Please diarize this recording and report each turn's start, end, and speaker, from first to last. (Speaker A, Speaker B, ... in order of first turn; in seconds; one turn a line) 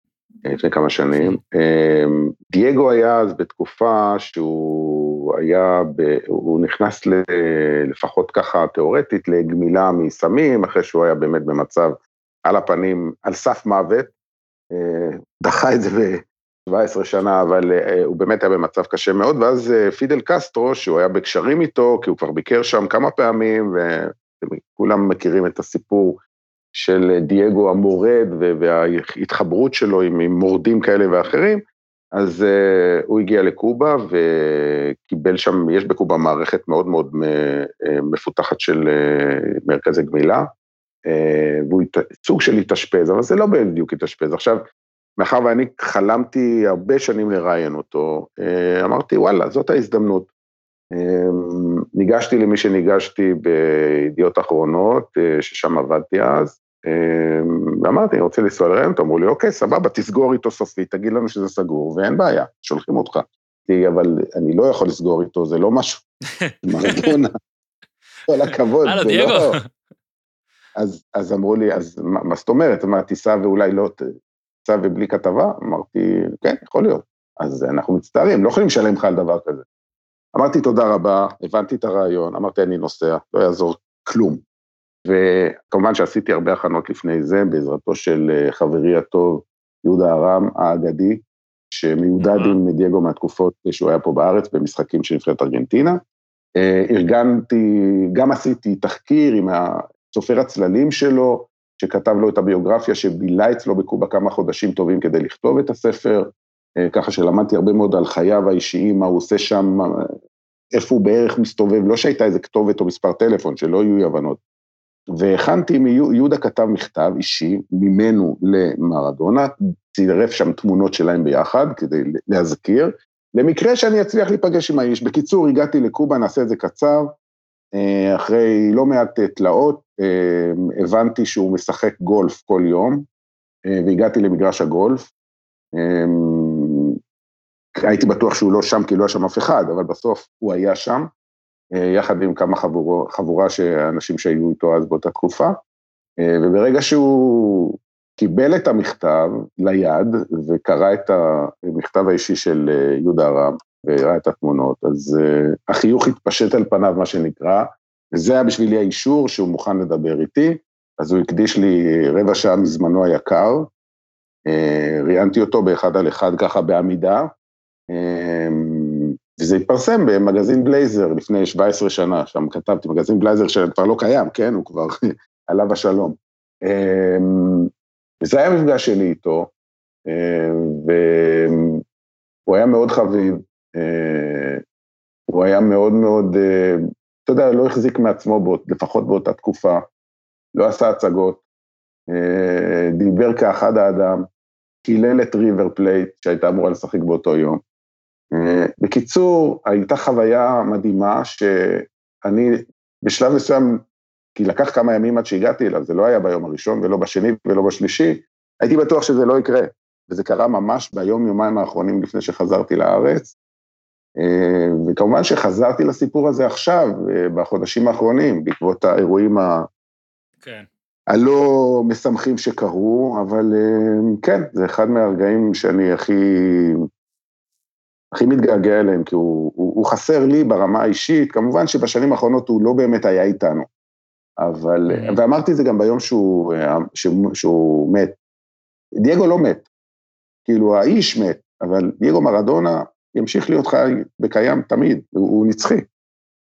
Speaker A: 0.5-14.1
Speaker A: 14.7-26.2
Speaker A: 26.8-31.6
Speaker A: 32.1-40.5
Speaker A: 41.1-44.6
Speaker A: 45.2-50.3
Speaker A: 50.9-66.0
Speaker B: 66.5-67.1
Speaker A: 66.6-67.3
Speaker A: 68.3-69.6
Speaker B: 68.9-69.7
Speaker A: 70.8-74.1
Speaker A: 74.6-79.6
Speaker A: 80.3-84.4
Speaker A: 85.1-96.0
Speaker B: 92.2-92.6
Speaker A: 96.6-106.3
Speaker A: 106.8-110.1
Speaker A: 110.8-114.4
Speaker A: 115.2-127.1
Speaker A: 127.8-133.1
Speaker A: 133.7-135.1
Speaker A: 135.8-137.0
Speaker A: 137.8-141.1
Speaker A: 141.8-145.5
Speaker A: 146.2-163.7
Speaker A: 164.5-167.3
Speaker A: 167.9-177.7
Speaker A: 178.2-179.5
Speaker A: 180.1-181.8
Speaker A: 182.5-184.6
Speaker A: 185.3-189.8
Speaker A: 190.6-191.4
Speaker A: 192.1-194.3
Speaker A: 194.8-197.6
Speaker A: 198.3-203.8
Speaker A: 204.4-213.3
Speaker A: 214.2-219.7
Speaker B: 220.4-220.7
Speaker A: 221.1-226.9
Speaker A: 228.1-233.7
Speaker A: 234.4-238.2
Speaker B: 234.9-235.2
Speaker A: 239.0-239.7
Speaker A: 240.4-245.8